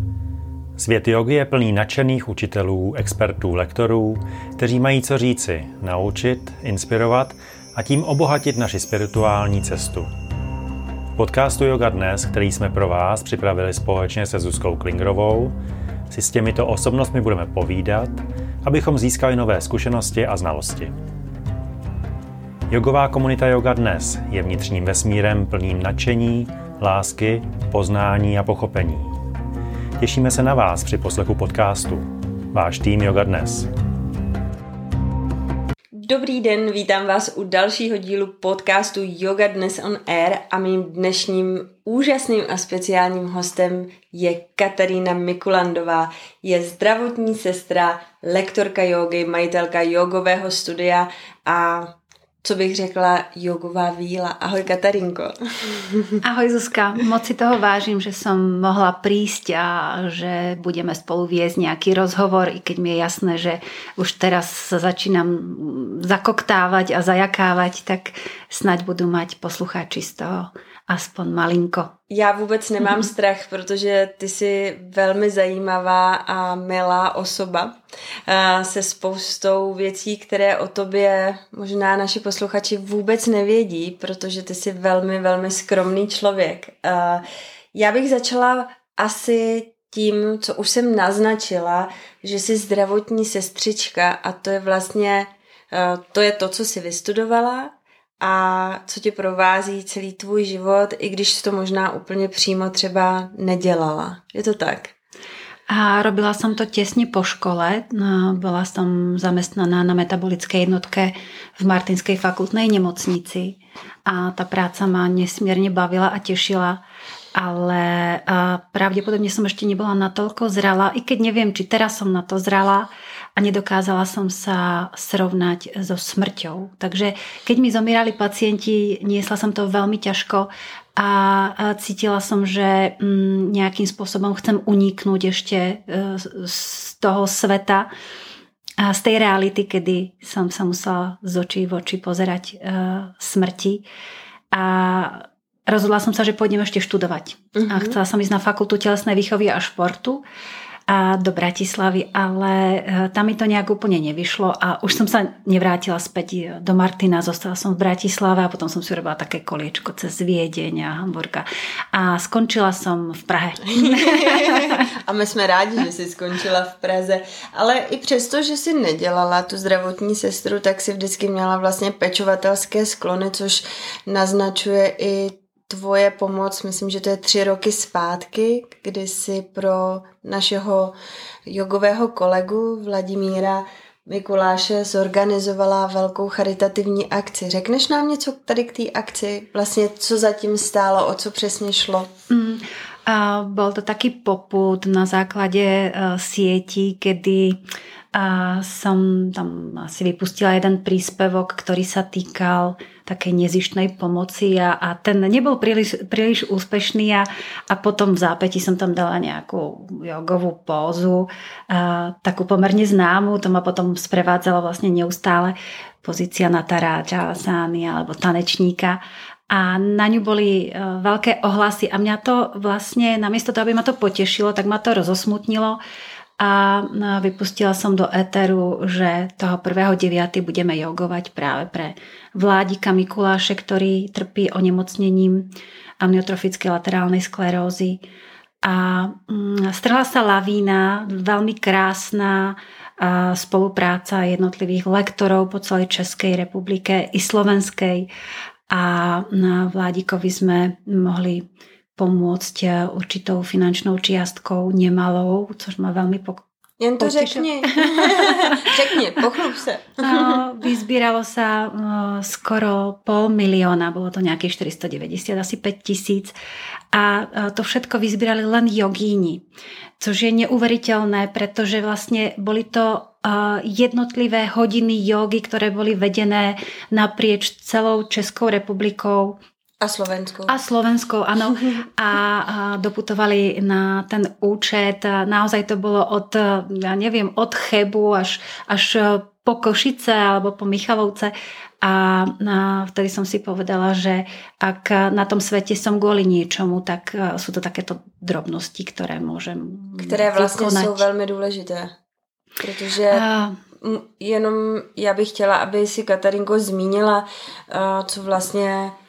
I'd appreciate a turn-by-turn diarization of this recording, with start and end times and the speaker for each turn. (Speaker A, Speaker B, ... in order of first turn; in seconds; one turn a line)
Speaker A: 0.8-10.1
Speaker A: 11.2-15.5
Speaker A: 16.1-20.9
Speaker A: 22.7-29.1
Speaker A: 30.0-33.7
Speaker B: 36.0-56.2
Speaker C: 56.2-71.9
Speaker B: 72.1-104.9
Speaker C: 105.7-116.8
Speaker C: 117.3-137.9
Speaker C: 138.8-143.8
Speaker C: 144.5-150.2
Speaker B: 147.5-148.0
Speaker C: 150.9-164.8
Speaker B: 163.7-180.9
Speaker B: 181.5-192.1
Speaker C: 192.3-197.6
Speaker C: 198.1-225.8
Speaker C: 226.4-238.0
Speaker C: 238.6-248.1
Speaker C: 248.7-251.4
Speaker C: 251.9-256.4
Speaker B: 256.8-260.4
Speaker C: 257.0-258.7
Speaker C: 260.0-266.3
Speaker C: 266.9-269.4
Speaker C: 270.0-279.4
Speaker B: 279.8-280.6
Speaker C: 280.5-301.1
Speaker B: 300.0-301.9
Speaker B: 302.6-303.2
Speaker C: 303.1-303.6
Speaker B: 303.8-308.9